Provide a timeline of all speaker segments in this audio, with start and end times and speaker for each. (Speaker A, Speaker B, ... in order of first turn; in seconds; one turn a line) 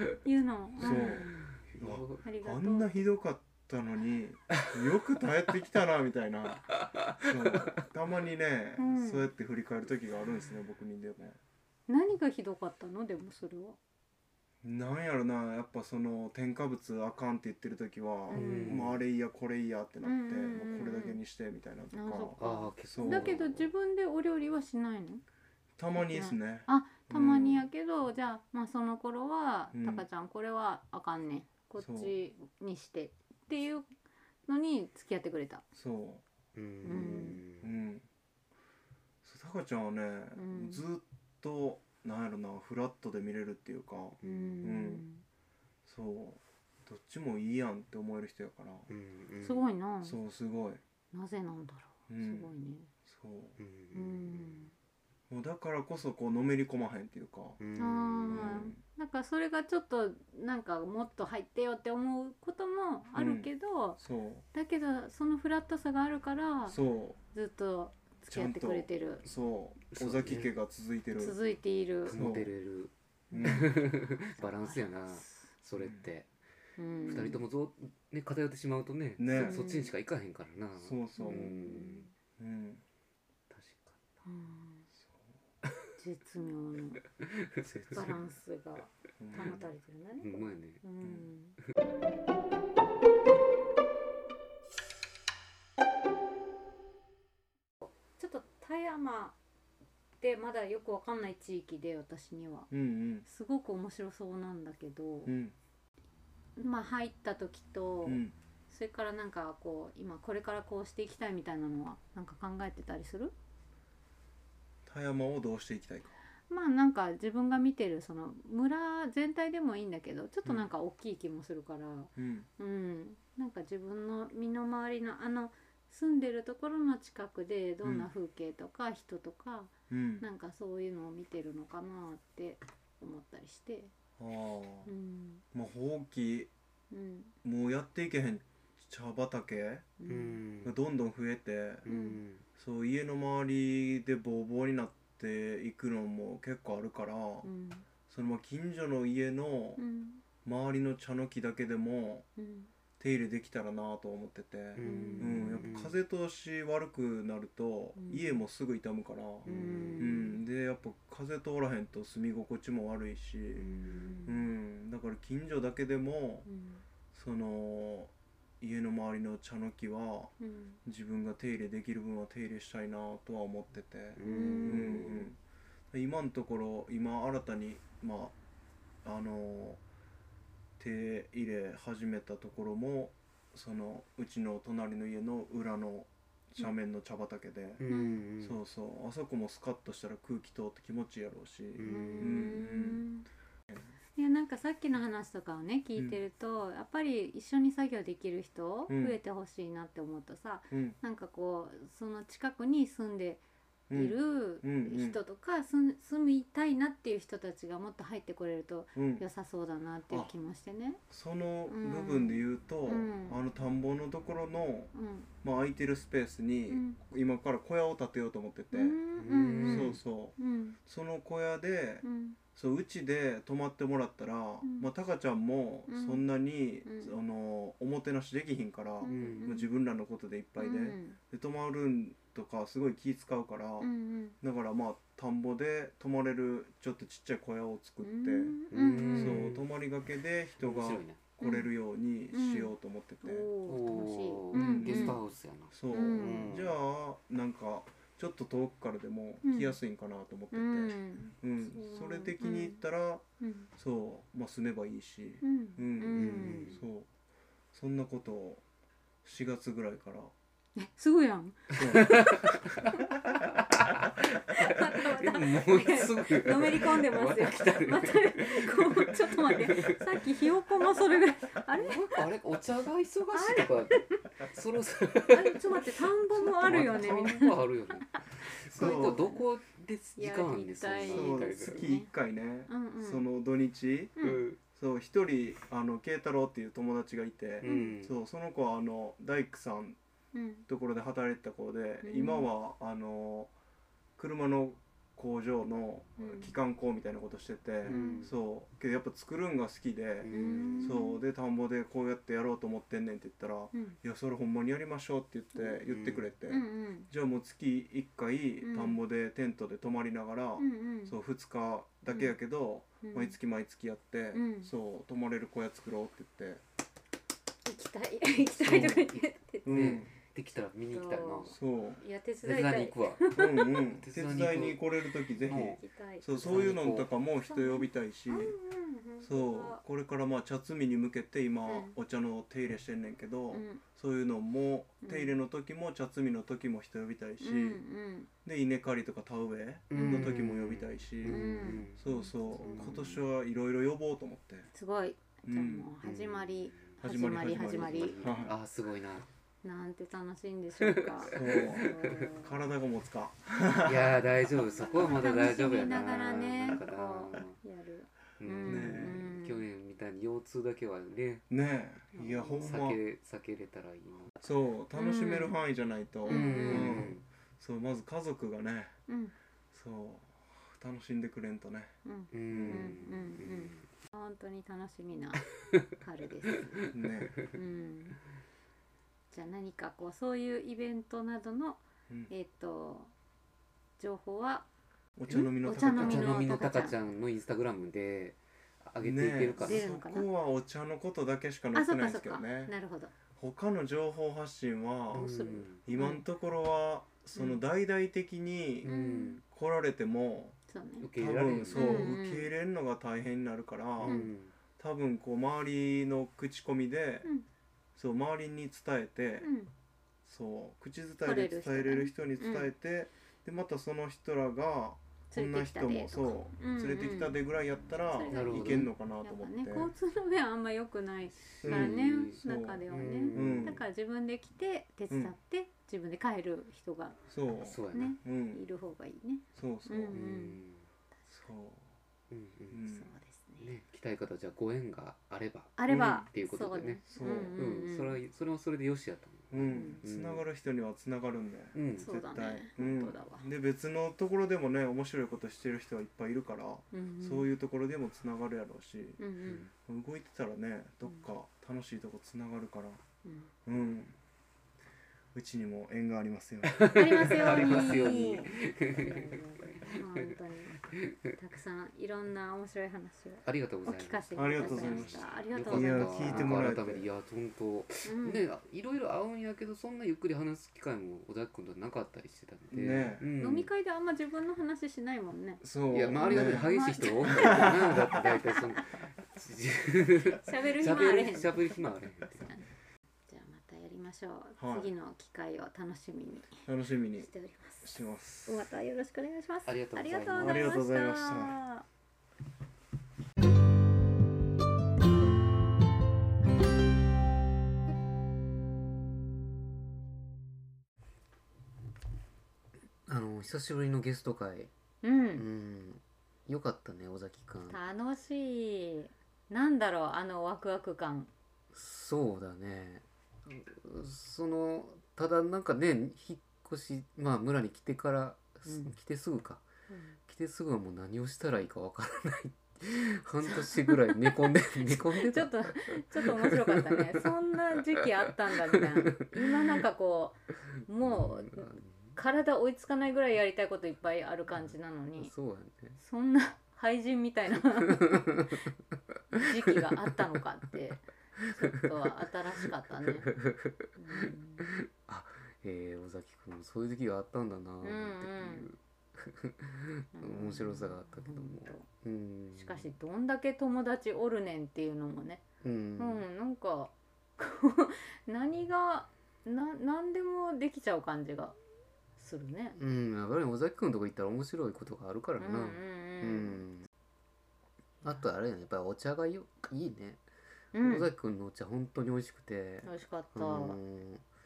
Speaker A: 0.2-1.5
Speaker B: 0.8-11.4
Speaker C: 0.8-2.2
Speaker A: 2.2-3.0
Speaker C: 6.9-7.6
Speaker A: 8.8-9.3
Speaker A: 11.9-13.8
Speaker B: 14.6-23.3
Speaker A: 18.3-18.9
Speaker C: 18.3-19.0
Speaker A: 20.0-21.2
Speaker A: 21.9-25.2
Speaker C: 22.4-23.7
Speaker B: 25.8-27.7
Speaker A: 25.9-33.9
Speaker B: 29.7-30.1
Speaker B: 31.8-32.1
Speaker A: 34.5-35.6
Speaker B: 35.8-36.2
Speaker C: 36.5-37.7
Speaker A: 36.8-37.4
Speaker B: 36.8-38.0
Speaker B: 39.2-45.0
Speaker A: 40.4-40.8
Speaker C: 44.2-44.6
Speaker A: 44.2-45.2
Speaker B: 45.8-48.9
Speaker C: 48.9-49.7
Speaker A: 49.4-50.2
Speaker B: 50.0-50.8
Speaker A: 51.1-52.9
Speaker B: 52.1-52.5
Speaker B: 53.0-53.6
Speaker C: 53.6-54.7
Speaker A: 53.9-54.7
Speaker B: 55.3-57.6
Speaker C: 57.6-58.7
Speaker A: 57.8-64.0
Speaker B: 58.3-58.8
Speaker B: 63.1-64.4
Speaker A: 64.5-66.8
Speaker B: 66.7-67.2
Speaker A: 67.3-69.2
Speaker B: 68.3-71.4
Speaker C: 69.9-70.5
Speaker A: 71.2-72.2
Speaker C: 72.0-76.3
Speaker B: 72.1-72.5
Speaker A: 73.3-75.5
Speaker B: 73.3-73.7
Speaker B: 75.8-76.0
Speaker A: 76.8-77.4
Speaker C: 77.0-82.1
Speaker B: 79.2-79.6
Speaker A: 79.3-79.9
Speaker B: 80.8-81.5
Speaker A: 81.2-82.1
Speaker B: 82.4-82.8
Speaker C: 83.5-84.1
Speaker A: 84.2-84.8
Speaker A: 86.0-87.0
Speaker C: 87.2-88.2
Speaker B: 87.7-88.2
Speaker A: 87.9-91.6
Speaker B: 89.2-89.6
Speaker C: 89.3-89.7
Speaker C: 90.2-90.8
Speaker B: 91.0-91.3
Speaker A: 97.8-99.4
Speaker A: 100.2-102.7
Speaker B: 102.7-103.2
Speaker A: 103.2-105.3
Speaker B: 105.2-105.5
Speaker A: 106.6-113.3
Speaker B: 108.0-108.3
Speaker B: 114.8-116.2
Speaker A: 116.5-133.9
Speaker B: 122.2-122.5
Speaker B: 127.8-128.1
Speaker B: 129.9-130.2
Speaker B: 134.2-134.9
Speaker A: 134.9-135.4
Speaker B: 135.5-136.5
Speaker A: 136.9-137.3
Speaker B: 137.4-139.9
Speaker A: 140.0-140.4
Speaker C: 140.1-140.8
Speaker B: 140.6-141.8
Speaker C: 141.8-142.4
Speaker A: 141.9-142.2
Speaker B: 142.6-147.5
Speaker A: 147.4-147.8
Speaker B: 148.1-149.8
Speaker A: 149.8-150.2
Speaker B: 150.4-152.2
Speaker A: 152.4-152.7
Speaker B: 153.0-163.7
Speaker C: 154.7-156.0
Speaker A: 154.8-155.7
Speaker A: 157.9-158.4
Speaker C: 159.4-160.2
Speaker A: 159.4-160.4
Speaker A: 163.6-164.5
Speaker C: 163.8-164.1
Speaker B: 164.2-166.5
Speaker A: 166.4-166.8
Speaker B: 167.1-170.3
Speaker A: 170.4-170.8
Speaker B: 170.8-175.4
Speaker C: 174.2-175.3
Speaker A: 174.2-175.3
Speaker B: 175.9-178.3
Speaker B: 179.0-179.8
Speaker B: 180.8-187.8
Speaker C: 187.8-188.6
Speaker A: 187.9-188.2
Speaker B: 188.4-193.0
Speaker C: 191.8-192.6
Speaker A: 191.8-193.2
Speaker A: 194.2-211.0
Speaker B: 198.9-199.2
Speaker B: 200.7-200.9
Speaker B: 203.9-205.2
Speaker B: 208.9-209.2
Speaker B: 211.1-214.9
Speaker A: 211.7-213.4
Speaker A: 214.9-215.3
Speaker B: 215.4-219.0
Speaker A: 216.7-217.0
Speaker A: 218.7-220.8
Speaker C: 219.2-220.0
Speaker B: 219.6-238.6
Speaker A: 222.0-222.4
Speaker A: 224.6-224.9
Speaker A: 225.9-226.2
Speaker A: 226.8-227.2
Speaker A: 229.0-229.7
Speaker C: 229.1-229.6
Speaker A: 230.6-231.2
Speaker A: 233.8-234.4
Speaker A: 238.0-239.6
Speaker C: 238.7-239.7
Speaker B: 239.1-243.5
Speaker C: 240.6-241.2
Speaker A: 241.4-241.7
Speaker A: 242.3-245.2
Speaker C: 243.7-246.8
Speaker B: 244.5-253.2
Speaker A: 245.9-246.6
Speaker A: 249.4-249.8
Speaker A: 250.5-252.8
Speaker A: 253.4-253.7
Speaker B: 253.8-257.1
Speaker A: 255.4-256.8
Speaker C: 256.1-256.8
Speaker B: 257.7-258.6
Speaker B: 259.2-260.3
Speaker A: 260.8-262.4
Speaker B: 261.7-262.9
Speaker C: 261.8-263.0
Speaker A: 262.9-263.4
Speaker C: 263.5-270.3
Speaker A: 264.5-272.3
Speaker C: 271.8-281.9
Speaker A: 273.3-274.3
Speaker A: 275.3-279.4
Speaker B: 278.7-279.3
Speaker A: 280.1-282.1
Speaker B: 281.1-284.1
Speaker A: 282.7-283.2
Speaker A: 284.2-284.4
Speaker C: 284.2-284.6
Speaker B: 284.7-290.0
Speaker C: 287.6-288.1
Speaker A: 287.6-288.0
Speaker A: 290.3-290.6
Speaker B: 290.7-293.5
Speaker A: 292.0-292.5
Speaker B: 294.2-316.6
Speaker A: 296.2-296.5
Speaker C: 297.8-298.3
Speaker A: 297.9-298.3
Speaker C: 300.2-301.0
Speaker A: 300.3-301.2
Speaker A: 303.7-304.0
Speaker C: 305.9-306.3
Speaker A: 306.5-307.1
Speaker A: 308.6-309.0
Speaker A: 310.6-311.1
Speaker A: 312.1-312.4
Speaker A: 313.0-313.4
Speaker A: 314.3-314.7
Speaker A: 317.6-320.0
Speaker C: 318.6-321.6
Speaker B: 318.7-319.1
Speaker B: 319.6-320.1
Speaker A: 320.9-323.9
Speaker B: 321.5-322.0
Speaker C: 322.4-325.8
Speaker B: 323.3-328.5
Speaker A: 325.4-326.7
Speaker C: 326.3-327.1
Speaker A: 327.4-329.8
Speaker B: 329.2-337.8
Speaker A: 331.6-331.9
Speaker A: 333.5-333.8
Speaker A: 335.0-335.3
Speaker A: 337.4-338.3
Speaker B: 338.4-344.7
Speaker C: 339.9-343.2
Speaker A: 339.9-340.4
Speaker A: 341.2-343.0
Speaker A: 344.7-348.4
Speaker B: 345.4-345.9
Speaker C: 346.0-349.3
Speaker B: 347.0-348.5
Speaker A: 349.6-352.6
Speaker C: 350.8-352.3
Speaker B: 351.2-354.5
Speaker C: 353.8-357.6
Speaker A: 354.8-359.6
Speaker C: 358.4-361.4
Speaker B: 358.6-359.2
Speaker B: 361.5-363.0
Speaker A: 362.1-362.7
Speaker C: 362.6-364.3
Speaker B: 364.4-368.9
Speaker A: 364.9-365.6
Speaker A: 366.2-367.1
Speaker C: 366.3-367.2
Speaker A: 369.1-369.3
Speaker B: 369.7-371.9
Speaker A: 372.0-376.9
Speaker C: 372.3-373.9
Speaker B: 372.4-373.0
Speaker C: 376.5-377.5
Speaker B: 376.9-377.4
Speaker A: 377.5-378.2
Speaker A: 379.3-383.1
Speaker A: 384.0-384.7
Speaker B: 385.2-386.5
Speaker A: 385.3-387.0
Speaker C: 385.9-389.9
Speaker B: 389.0-392.7
Speaker A: 389.6-390.3
Speaker A: 391.7-393.1
Speaker B: 393.3-398.9
Speaker A: 395.1-396.2
Speaker C: 395.1-395.8
Speaker C: 398.8-399.4
Speaker A: 398.9-399.4
Speaker B: 399.4-400.6
Speaker A: 400.7-401.1
Speaker C: 401.0-402.2
Speaker B: 401.1-407.3
Speaker A: 401.7-402.5
Speaker C: 404.0-404.5
Speaker A: 404.0-404.3
Speaker B: 407.9-409.5
Speaker A: 409.4-409.7
Speaker B: 410.2-419.9
Speaker A: 411.2-412.7
Speaker A: 415.3-417.4
Speaker A: 418.1-427.2
Speaker C: 418.3-418.9
Speaker C: 421.6-423.8
Speaker B: 421.6-423.8
Speaker B: 425.1-425.3
Speaker B: 427.3-428.6
Speaker C: 427.6-428.2
Speaker A: 427.9-430.6
Speaker B: 429.5-430.2
Speaker C: 430.1-430.9
Speaker B: 431.3-431.9
Speaker C: 432.3-432.8
Speaker B: 432.7-433.1
Speaker A: 432.9-433.7
Speaker C: 433.6-440.4
Speaker A: 435.8-438.2
Speaker B: 435.9-436.3
Speaker B: 437.1-437.6
Speaker B: 439.5-453.0
Speaker A: 439.6-440.0
Speaker C: 441.7-442.1
Speaker A: 442.0-443.5
Speaker A: 446.9-447.5
Speaker A: 449.2-449.7
Speaker A: 453.2-453.5
Speaker B: 453.6-454.2
Speaker B: 455.3-457.9
Speaker C: 456.7-460.4
Speaker A: 456.9-466.6
Speaker C: 460.9-461.4
Speaker C: 463.4-473.7
Speaker B: 464.3-467.1
Speaker A: 468.0-468.5
Speaker B: 472.7-473.3
Speaker A: 473.4-475.6
Speaker B: 475.6-476.7
Speaker C: 475.9-482.5
Speaker A: 476.2-478.8
Speaker B: 477.2-478.2
Speaker A: 480.4-481.8
Speaker A: 483.3-486.6
Speaker B: 484.6-484.9
Speaker B: 486.6-487.3
Speaker A: 487.2-491.8
Speaker B: 487.8-488.6
Speaker C: 489.6-490.8
Speaker B: 490.4-491.6
Speaker C: 503.1-504.7
Speaker A: 505.0-505.4
Speaker C: 505.3-507.8
Speaker A: 507.7-511.3
Speaker C: 511.7-519.6
Speaker A: 518.6-518.9
Speaker A: 519.9-520.2
Speaker C: 520.3-529.8
Speaker A: 523.5-535.3
Speaker C: 531.0-532.1
Speaker C: 534.5-536.0
Speaker A: 536.0-538.7
Speaker C: 537.5-540.4
Speaker A: 539.4-543.3
Speaker C: 541.4-552.9
Speaker A: 544.0-544.6
Speaker A: 547.8-548.7
Speaker A: 550.1-551.8
Speaker A: 552.5-555.4
Speaker C: 555.6-556.2
Speaker A: 556.0-561.5
Speaker A: 562.2-562.8
Speaker C: 562.8-566.9
Speaker A: 565.4-566.6
Speaker C: 568.0-570.2
Speaker A: 570.7-571.1
Speaker C: 570.8-574.2
Speaker A: 572.8-573.8